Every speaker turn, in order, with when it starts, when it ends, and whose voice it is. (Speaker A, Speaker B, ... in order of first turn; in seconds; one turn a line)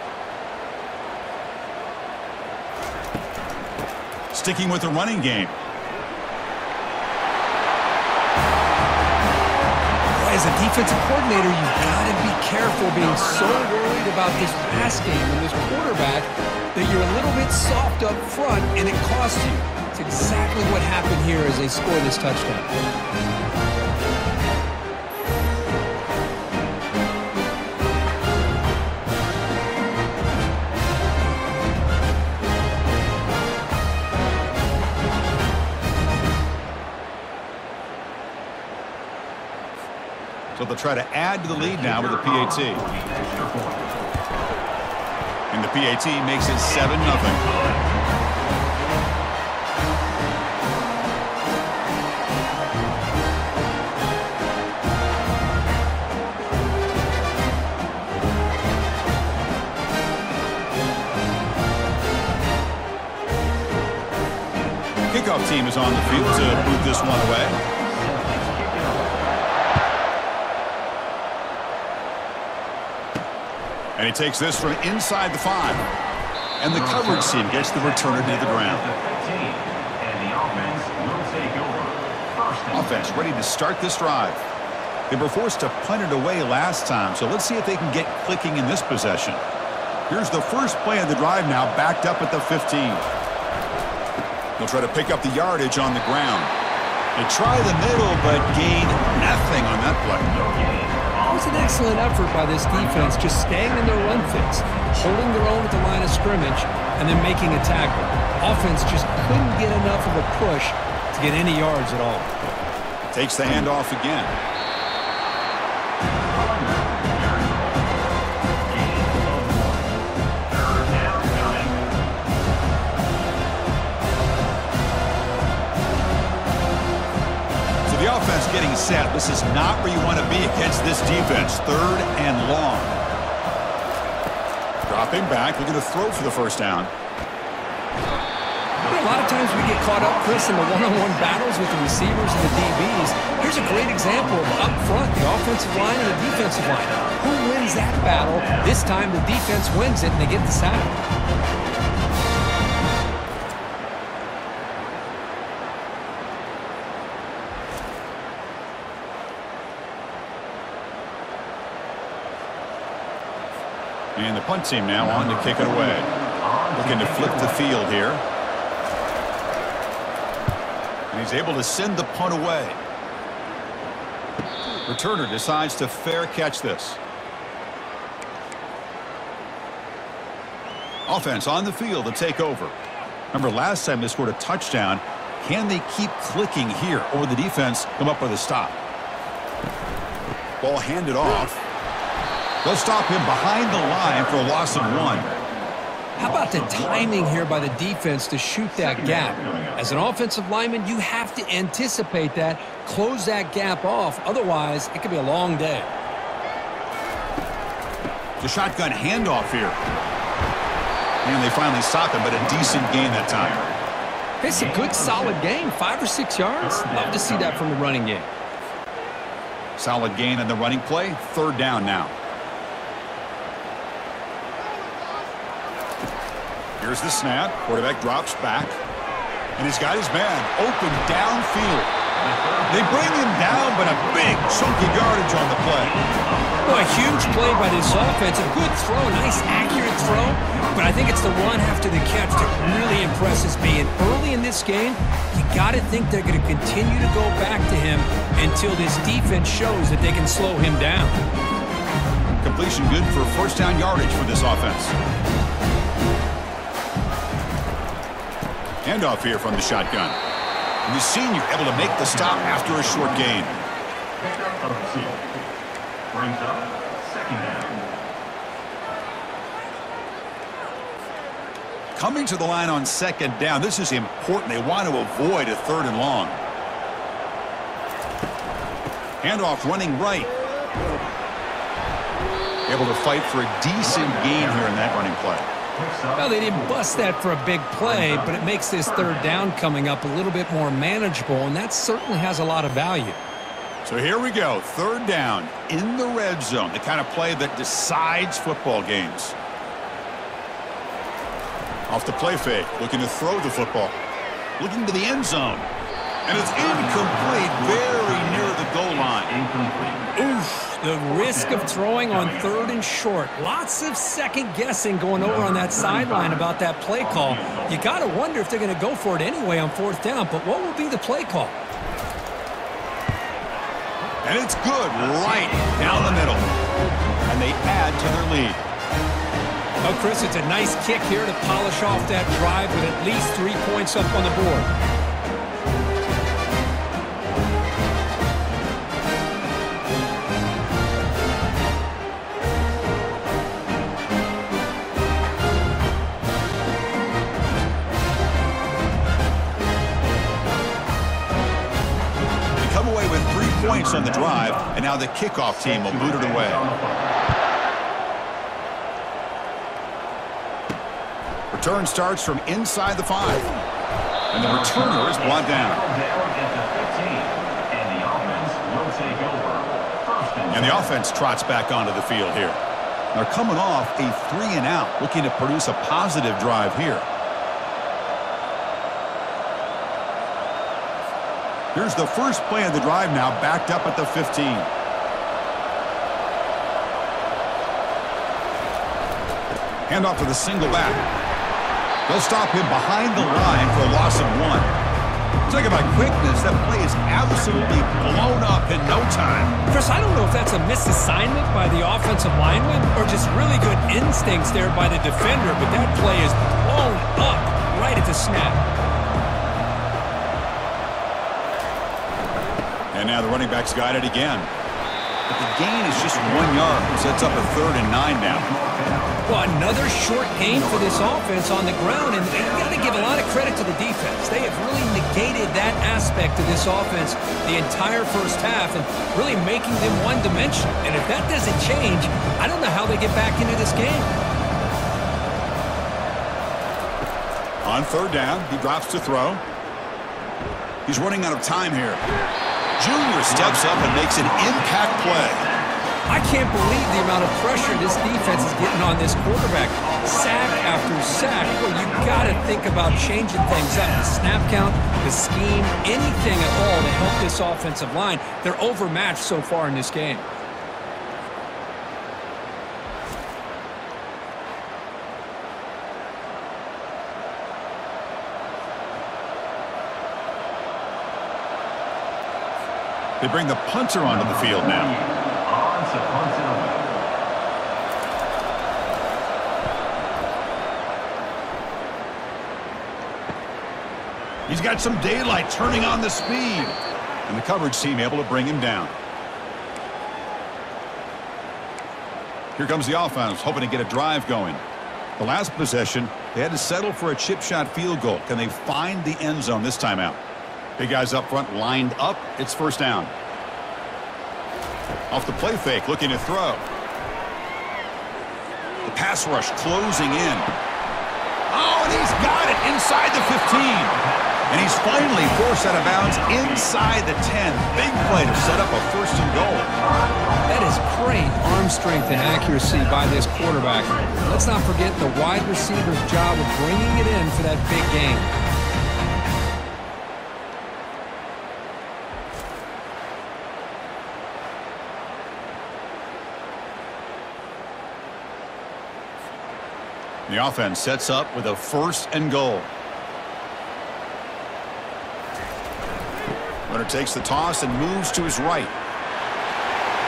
Speaker A: 4.3-5.5
Speaker B: 10.1-22.7
Speaker C: 12.9-15.0
Speaker A: 40.5-42.8
Speaker C: 41.5-43.9
Speaker A: 45.5-47.4
Speaker C: 46.6-47.9
Speaker A: 65.1-67.6
Speaker C: 65.9-69.5
Speaker A: 74.0-75.9
Speaker A: 76.6-78.8
Speaker C: 76.7-83.2
Speaker A: 82.7-84.4
Speaker A: 85.1-89.4
Speaker A: 90.1-93.1
Speaker A: 94.6-96.5
Speaker A: 97.1-100.3
Speaker C: 98.8-99.1
Speaker C: 100.2-104.3
Speaker B: 101.3-112.3
Speaker A: 113.1-114.3
Speaker C: 116.2-118.0
Speaker C: 118.6-120.0
Speaker C: 120.5-121.8
Speaker A: 127.8-133.0
Speaker A: 134.9-136.9
Speaker C: 138.8-148.8
Speaker B: 138.8-151.0
Speaker A: 164.2-166.1
Speaker C: 165.0-165.8
Speaker C: 166.4-167.7
Speaker A: 166.8-168.2
Speaker A: 171.1-172.8
Speaker A: 174.8-177.0
Speaker A: 181.1-182.7
Speaker A: 183.3-188.8
Speaker A: 190.6-191.6
Speaker A: 192.6-195.3
Speaker C: 193.7-195.4
Speaker B: 196.2-205.9
Speaker C: 196.2-197.7
Speaker C: 198.7-200.1
Speaker A: 208.4-209.8
Speaker A: 211.2-213.6
Speaker C: 212.3-213.8
Speaker B: 214.4-218.3
Speaker C: 214.4-215.7
Speaker C: 216.6-217.7
Speaker A: 219.8-222.1
Speaker A: 226.8-228.8
Speaker A: 229.6-231.9
Speaker C: 232.1-238.4
Speaker A: 232.7-235.9
Speaker B: 236.6-251.2
Speaker C: 239.1-243.1
Speaker A: 252.4-254.9
Speaker A: 258.8-260.2
Speaker A: 260.8-263.5
Speaker C: 261.7-263.6
Speaker C: 264.2-265.3
Speaker C: 266.1-267.9
Speaker A: 271.9-276.4
Speaker A: 279.2-280.3
Speaker A: 282.7-285.5
Speaker C: 283.8-285.1
Speaker C: 285.7-287.1
Speaker B: 286.2-293.2
Speaker C: 287.8-289.5
Speaker A: 293.8-299.4
Speaker A: 301.9-303.9
Speaker A: 304.6-305.7
Speaker A: 306.2-309.3
Speaker C: 306.3-310.1
Speaker B: 310.2-321.5
Speaker C: 311.1-312.8
Speaker C: 315.1-318.0
Speaker A: 324.2-326.5
Speaker C: 324.9-326.4
Speaker A: 327.3-328.6
Speaker B: 329.8-334.7
Speaker A: 352.6-356.6
Speaker C: 353.5-354.8
Speaker C: 355.5-357.2
Speaker A: 361.5-363.5
Speaker A: 364.3-365.8
Speaker C: 364.4-370.9
Speaker A: 370.5-372.6
Speaker A: 373.1-377.1
Speaker A: 381.7-384.7
Speaker A: 389.9-391.1
Speaker A: 392.1-394.7
Speaker C: 393.3-393.7
Speaker A: 395.5-399.6
Speaker C: 397.2-398.4
Speaker B: 399.7-408.6
Speaker A: 412.9-414.5
Speaker A: 415.3-418.5
Speaker C: 415.9-417.5
Speaker C: 418.2-419.4
Speaker B: 419.2-434.1
Speaker C: 420.4-421.2
Speaker C: 421.9-423.3
Speaker A: 437.6-439.4
Speaker A: 440.9-442.0
Speaker A: 442.8-445.4
Speaker C: 443.2-445.9
Speaker B: 446.0-460.3
Speaker C: 447.1-449.0
Speaker C: 449.8-454.3
Speaker A: 473.2-474.9
Speaker C: 474.0-477.0
Speaker A: 484.5-488.9
Speaker A: 492.6-494.6
Speaker A: 495.2-500.2
Speaker A: 500.8-503.1
Speaker A: 505.1-506.6
Speaker A: 508.8-510.5
Speaker A: 511.5-513.9
Speaker C: 513.2-516.8
Speaker A: 514.5-519.7
Speaker C: 517.7-518.7
Speaker C: 519.3-520.7
Speaker B: 520.5-528.3
Speaker C: 522.1-524.5
Speaker A: 540.3-542.7
Speaker A: 546.7-548.7